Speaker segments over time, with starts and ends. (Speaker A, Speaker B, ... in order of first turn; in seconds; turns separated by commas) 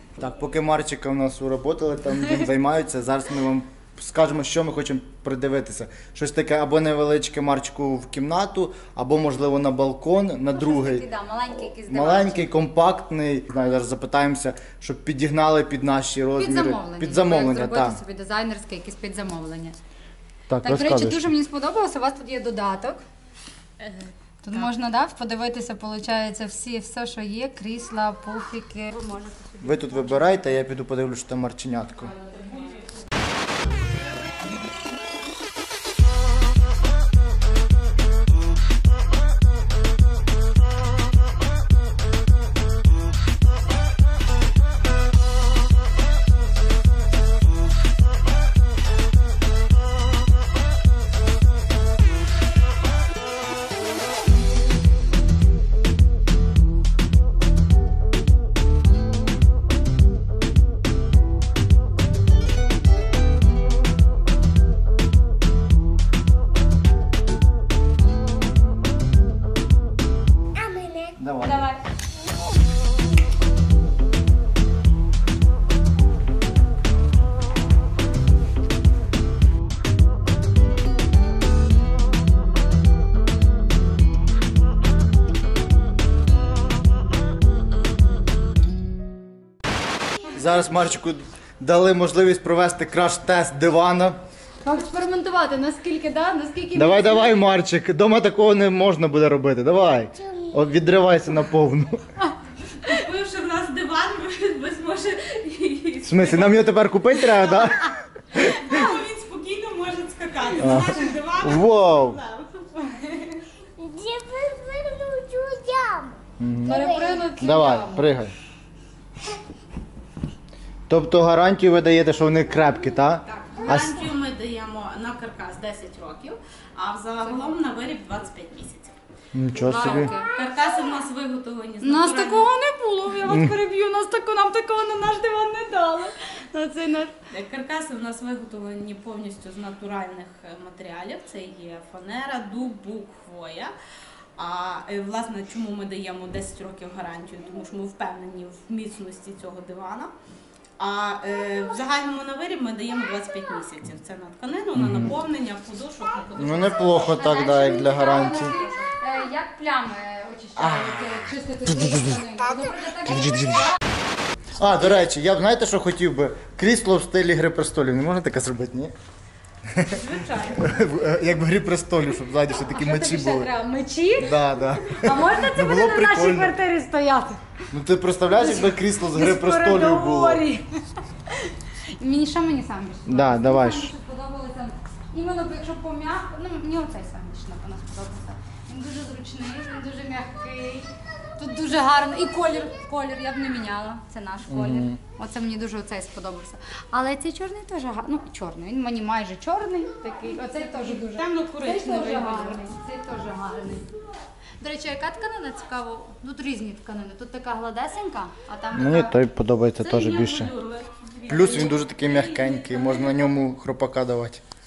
Speaker A: 0.2-11.1, Speaker B: 10.5-12.5, Speaker A: 11.8-18.0, Speaker B: 16.4-19.8, Speaker A: 20.5-21.3, Speaker B: 20.6-23.0, Speaker C: 23.8-24.6, Speaker B: 24.4-29.2, Speaker C: 29.1-30.0, Speaker A: 29.6-32.1, Speaker C: 32.2-32.7, Speaker D: 70.6-71.1, Speaker A: 71.2-71.6, Speaker B: 71.4-71.8, Speaker A: 90.3-94.2, Speaker B: 94.6-97.5, Speaker A: 96.8-102.0, Speaker C: 102.8-113.5, Speaker A: 106.0-107.9, Speaker A: 110.6-112.2, Speaker D: 113.8-116.2, Speaker A: 116.4-118.3, Speaker B: 116.6-118.1, Speaker D: 116.8-117.2, Speaker A: 120.9-123.9, Speaker C: 123.3-129.0, Speaker B: 123.6-124.0, Speaker A: 129.3-130.1, Speaker B: 129.6-130.3, Speaker C: 130.2-132.5, Speaker B: 131.8-137.2, Speaker A: 133.3-133.5, Speaker C: 137.3-143.7, Speaker C: 144.4-150.1, Speaker C: 150.8-157.2, Speaker A: 154.8-155.2, Speaker A: 156.4-158.6, Speaker B: 157.1-163.8, Speaker A: 160.6-162.2, Speaker A: 163.0-163.7, Speaker A: 164.6-168.9, Speaker A: 169.7-170.0, Speaker C: 169.9-170.8, Speaker A: 170.6-173.5, Speaker B: 172.5-177.5, Speaker A: 174.2-176.6, Speaker A: 177.7-180.4, Speaker B: 178.3-203.9, Speaker A: 183.1-183.9, Speaker A: 194.5-195.0, Speaker C: 200.5-202.6, Speaker B: 204.6-209.2, Speaker A: 208.7-210.5, Speaker C: 209.8-213.2, Speaker A: 211.3-214.4